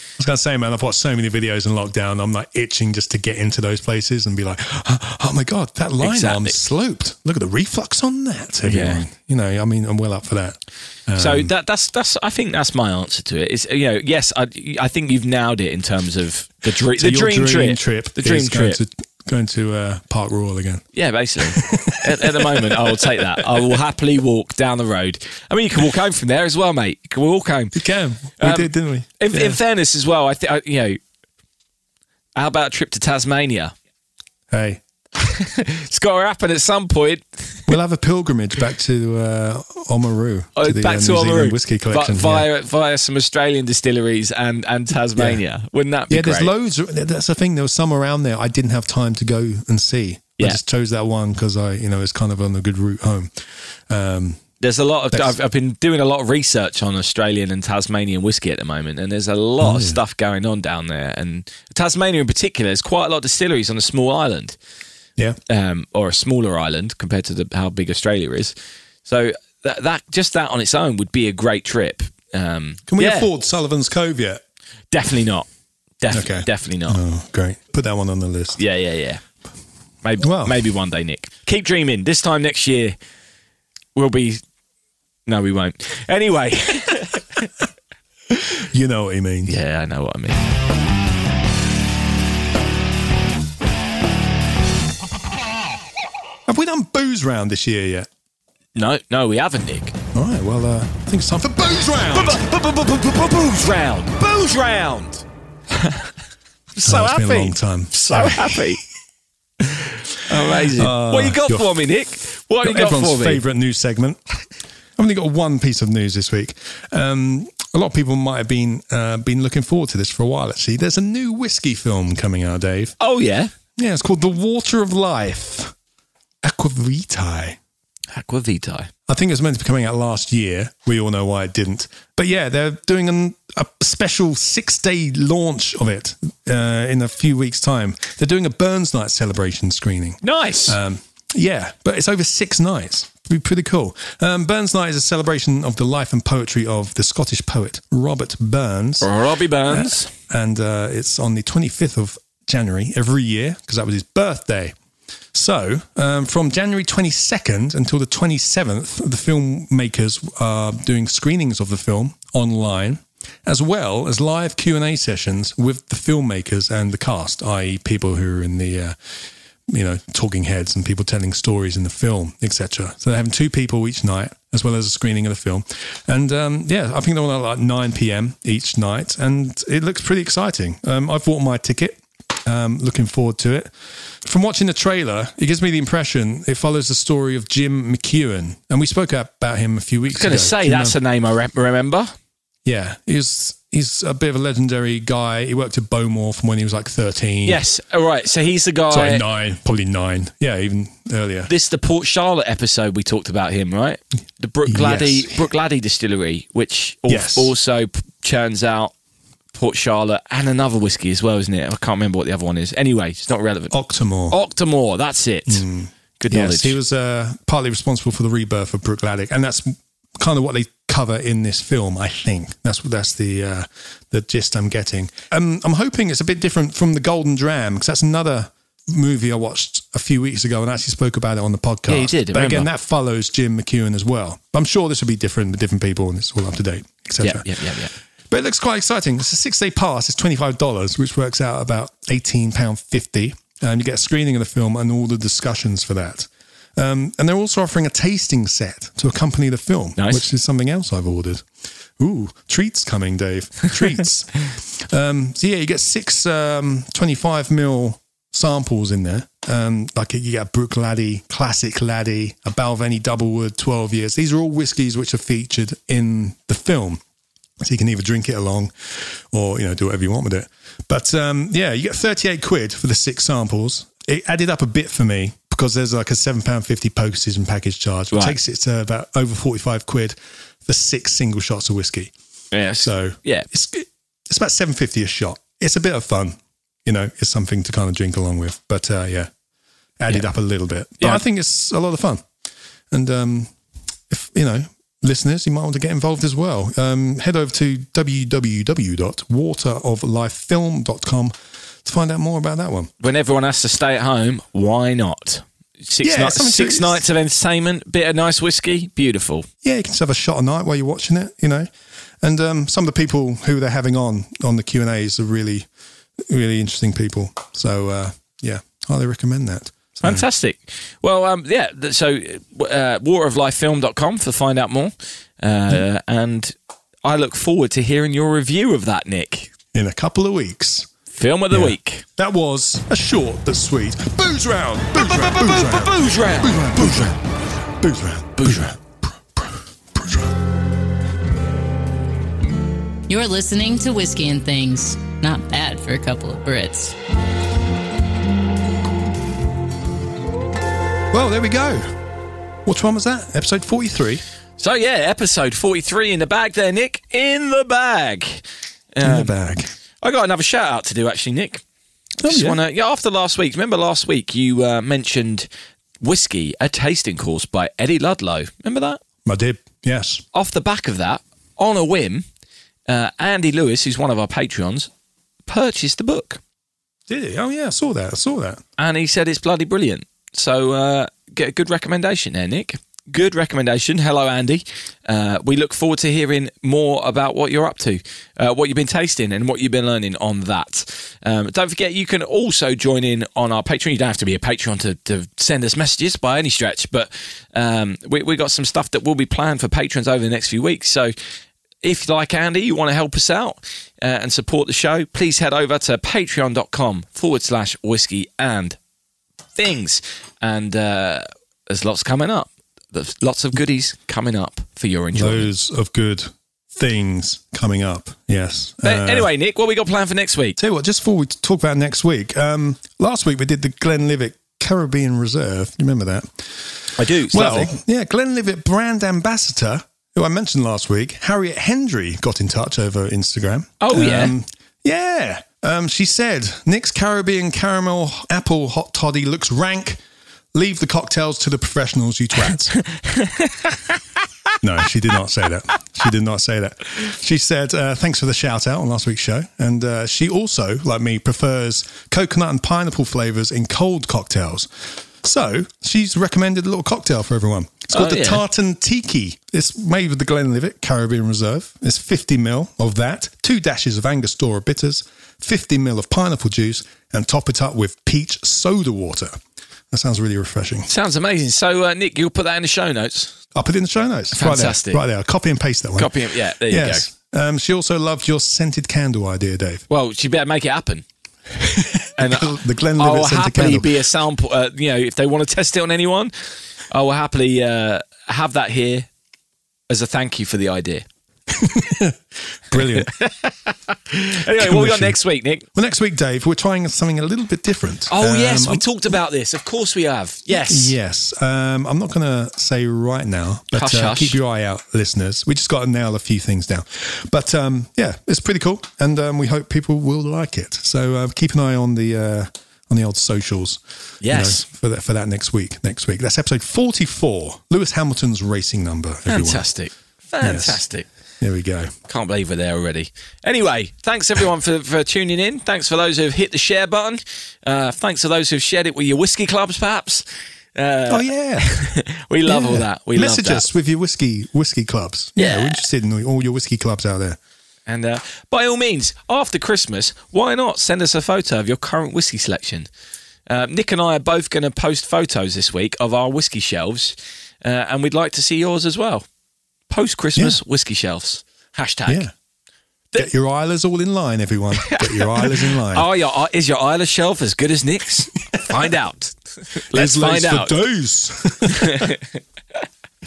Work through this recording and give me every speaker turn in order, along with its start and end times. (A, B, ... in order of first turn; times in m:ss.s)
0:00.2-0:11.5 A
0:06.0-0:06.6 B
0:08.6-0:09.0 B
0:11.2-0:18.8 B
0:16.9-0:20.8 A
0:20.9-0:27.7 B
0:21.4-0:23.4 A
0:27.7-0:29.6 A
0:28.4-0:31.0 B
0:32.3-0:33.7 B
0:34.5-0:34.8 A
0:35.2-0:37.7 B
0:37.7-0:42.5 A
0:40.6-0:46.5 B
0:45.2-0:45.4 A
0:46.1-0:53.3 A
0:53.9-0:54.4 A
0:54.6-1:04.6 B
0:59.6-1:00.0 A
1:05.5-1:13.3 B
1:12.9-1:14.4 A
1:14.9-1:15.5 B
1:16.0-1:17.0 B
1:16.1-1:18.6 A
1:18.6-1:19.2 B
1:20.0-1:23.0 B
1:20.2-1:20.6 A
1:23.9-1:24.4 B
1:25.2-1:27.5 B
1:28.7-1:29.5 A
1:29.4-1:30.4 B
1:36.5-1:38.1 A
1:38.7-1:40.0 B
1:40.1-1:42.4 A
1:42.1-1:46.1 B
1:46.7-1:48.8 B
1:46.8-1:48.8 A
1:49.6-1:53.4 B
1:50.5-1:51.8 A
1:52.6-1:54.2 A
1:55.0-2:03.0 A
2:03.0-2:03.5 B
2:03.8-2:05.7 A
2:06.4-2:07.6 A
2:08.1-2:08.9 B
2:09.1-2:29.1 A
2:20.2-2:20.8 B
2:29.0-2:30.1 B
2:29.7-2:34.7 A
2:35.3-2:49.0 A
2:49.7-3:03.7 A
3:04.2-3:11.0 A
3:10.1-3:12.1 B
3:12.6-3:17.6 A
3:17.4-3:19.2 B
3:18.9-3:21.5 A
3:21.5-3:28.9 B
3:24.6-3:25.4 A
3:27.1-3:27.5 A
3:29.5-3:33.7 B
3:33.7-3:34.4 A
3:34.3-3:35.6 B
3:35.5-4:11.4 A
3:36.2-3:36.8 B
3:51.9-3:52.7 B
3:57.2-3:57.9 B
4:10.0-4:10.3 B
4:12.0-4:27.0 A
4:27.6-4:42.1 A
4:42.5-4:43.4 B
4:42.8-4:49.3 A
4:50.0-4:52.2 A
4:52.9-4:53.5 A
4:54.1-5:02.9 A
5:03.0-5:09.5 B
5:06.0-5:07.0 A
5:09.6-5:11.7 A
5:12.2-5:15.7 A
5:16.3-5:20.2 A
5:20.0-5:29.5 B
5:29.7-5:30.9 A
5:31.1-5:32.0 B
5:31.5-5:37.2 A
5:35.0-5:37.2 B
5:37.8-5:40.3 A
5:38.4-5:38.7 B
5:43.1-5:47.0 C
5:51.1-5:51.9 A
5:52.6-5:54.2 A
5:54.6-5:59.3 B
5:59.0-5:59.7 A
6:00.0-6:01.6 B
6:02.2-6:02.6 A
6:02.2-6:05.5 B
6:06.0-6:09.0 B
6:09.2-6:10.2 A
6:10.3-6:12.2 B
6:12.9-6:14.9 B
6:15.4-6:16.4 B
6:17.1-6:18.6 A
6:18.8-6:41.1 B
6:41.8-6:48.8 B
6:49.5-6:55.5 B
6:55.1-6:59.3 A
6:58.8-7:00.6 B
7:00.6-7:06.7 A
7:07.0-7:07.7 B
7:07.3-7:20.0 A
7:13.8-7:14.3 B
7:20.5-7:22.8 A
7:23.0-7:24.0 B
7:24.6-7:49.3 A
7:37.9-7:38.4 B
7:49.9-7:50.9 A
7:50.9-7:53.4 B
7:53.5-7:59.8 A
7:54.3-7:55.0 B
7:56.0-7:57.1 B
7:59.9-8:01.0 B
8:01.7-8:03.9 A
8:02.2-8:06.3 B
8:06.9-8:09.1 B
8:09.9-8:11.0 B
8:11.5-8:13.1 A
8:12.7-8:15.7 B
8:14.5-8:15.2 A
8:15.7-8:18.9 A
8:18.1-8:21.0 B
8:20.5-8:39.7 A
8:23.7-8:24.4 B
8:34.2-8:34.6 B
8:39.3-8:41.1 B
8:40.4-8:40.8 A
8:41.4-8:41.9 A
8:42.1-8:53.7 B
8:51.1-8:51.8 A
8:52.4-8:57.4 A
8:55.4-8:55.8 B
8:57.8-9:02.9 B
9:03.5-9:09.2 B
9:09.9-9:12.2 B
9:12.1-9:12.3 A
9:13.2-9:16.1 A
9:14.8-9:20.8 B
9:19.9-9:22.2 A
9:21.7-9:22.2 B